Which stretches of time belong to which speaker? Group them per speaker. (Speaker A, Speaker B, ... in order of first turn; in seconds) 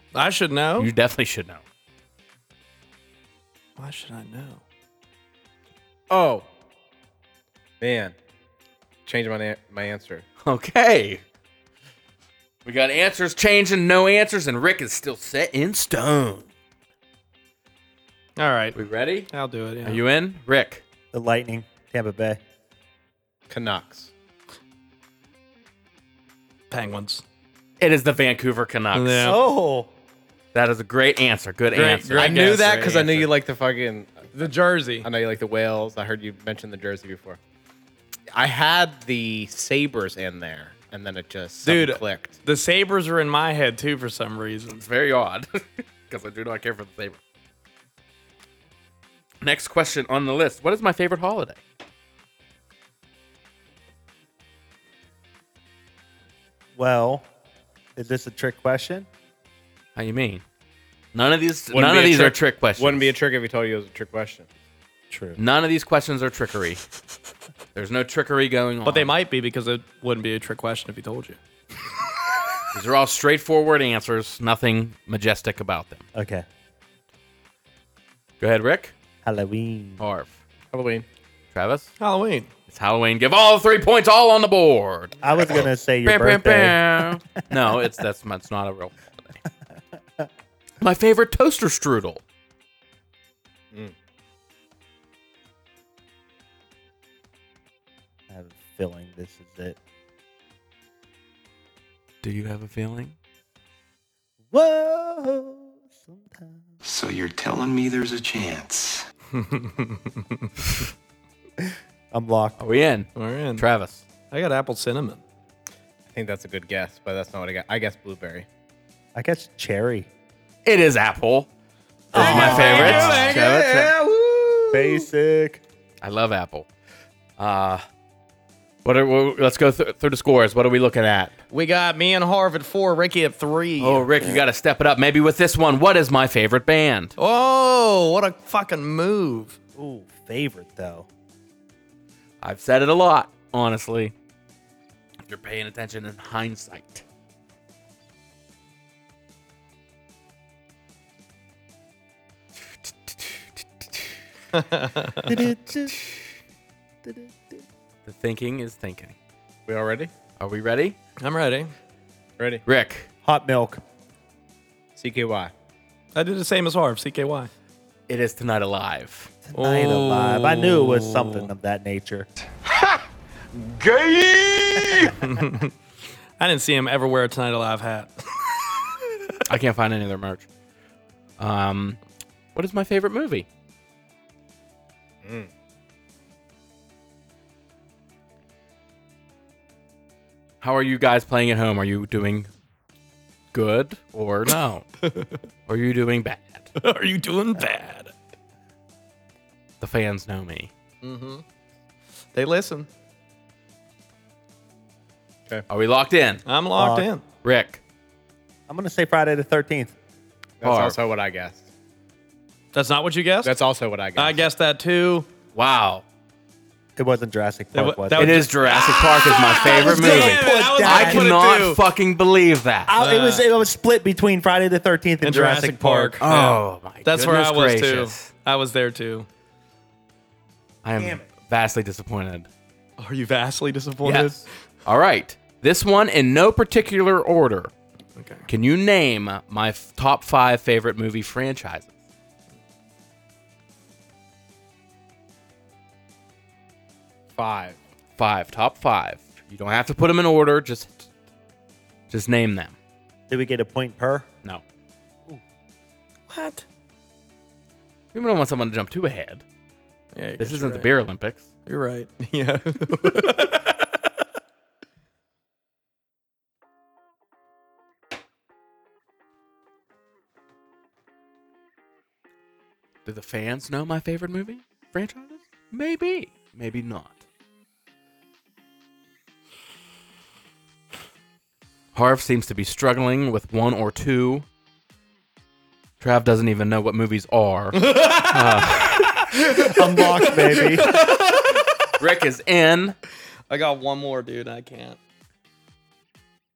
Speaker A: 0.1-0.9, 3.8-4.6, 18.4-18.8, 19.3-20.0, 26.7-27.2, 28.9-29.4, 31.7-32.6, 34.3-35.1, 41.6-44.8, 68.8-71.4, 82.0-82.5, 109.3-110.5, 113.1-113.6, 114.3-115.2, 122.1-125.1, 131.5-134.1, 137.2-139.6, 154.5-155.3, 161.2-161.7, 166.1-167.5, 169.5-171.5, 175.2-175.7, 176.4-178.9, 195.1-195.3, 196.8-198.1, 201.0-201.4, 202.3-202.9, 206.4-207.2, 212.7-213.5, 214.2-215.3, 217.7-221.8, 223.0-223.4, 225.2-229.3, 233.0-234.5, 238.2-238.4, 256.3-256.6, 260.1-260.9, 261.6-263.9, 287.7-291.7, 293.5-295.0
Speaker B: 0.8-1.6, 10.4-11.2, 12.6-16.5, 18.7-19.3, 19.8-20.8, 27.8-29.4, 30.5-33.3, 44.7-47.2, 49.4-51.6, 60.0-60.4, 61.1-63.1, 65.3-66.8, 67.7-69.1, 72.7-76.0, 78.4-78.9, 80.0-80.3, 81.5-81.9, 82.7-85.2, 86.0-88.9, 90.8-92.2, 102.2-103.1, 112.6-114.0, 120.6-121.5, 122.1-124.0, 126.0-126.7, 127.4-127.8, 128.8-131.4, 133.8-137.1, 142.4-144.1, 145.2-147.0, 153.1-153.8, 158.1-159.1, 160.4-161.0, 162.7-163.1, 168.1-169.3, 179.5-180.5, 181.4-182.0, 182.5-183.5, 190.6-192.5, 193.5-194.9, 195.7-196.7, 199.8-200.7, 205.7-206.4, 207.4-207.8, 210.6-211.0, 215.5-216.0, 218.1-222.9, 226.2-228.3, 230.8-232.5, 234.0-237.7, 238.5-241.9, 248.2-251.1, 252.1-252.7, 258.1-259.4, 260.4-261.4, 273.0-277.2, 281.9-284.4, 286.0-289.3, 292.0-293.0
Speaker C: 6.1-6.5, 7.8-8.1, 9.1-10.2, 23.5-24.1, 32.1-34.3, 35.0-37.4, 38.3-42.4, 61.7-64.5, 80.7-81.0, 116.1-118.5, 159.7-160.1, 164.9-165.5, 185.2-185.5, 210.6-211.6, 213.4-214.4, 247.3-247.8
Speaker D: 21.1-22.4, 29.2-29.9, 56.8-57.3, 58.0-59.1, 65.1-65.4, 76.1-76.5, 79.2-80.0, 85.2-87.8, 98.3-99.8, 104.5-106.7, 111.7-112.6, 119.1-120.1, 122.1-123.4, 124.7-125.6, 139.8-141.1, 155.2-156.1, 157.0-157.6, 163.2-163.8, 169.5-172.3, 206.8-207.1, 208.7-209.9, 216.9-218.5, 219.5-221.3, 222.9-226.2, 230.9-231.2, 253.3-254.3, 289.6-290.9
Speaker E: 106.8-109.0, 174.0-174.8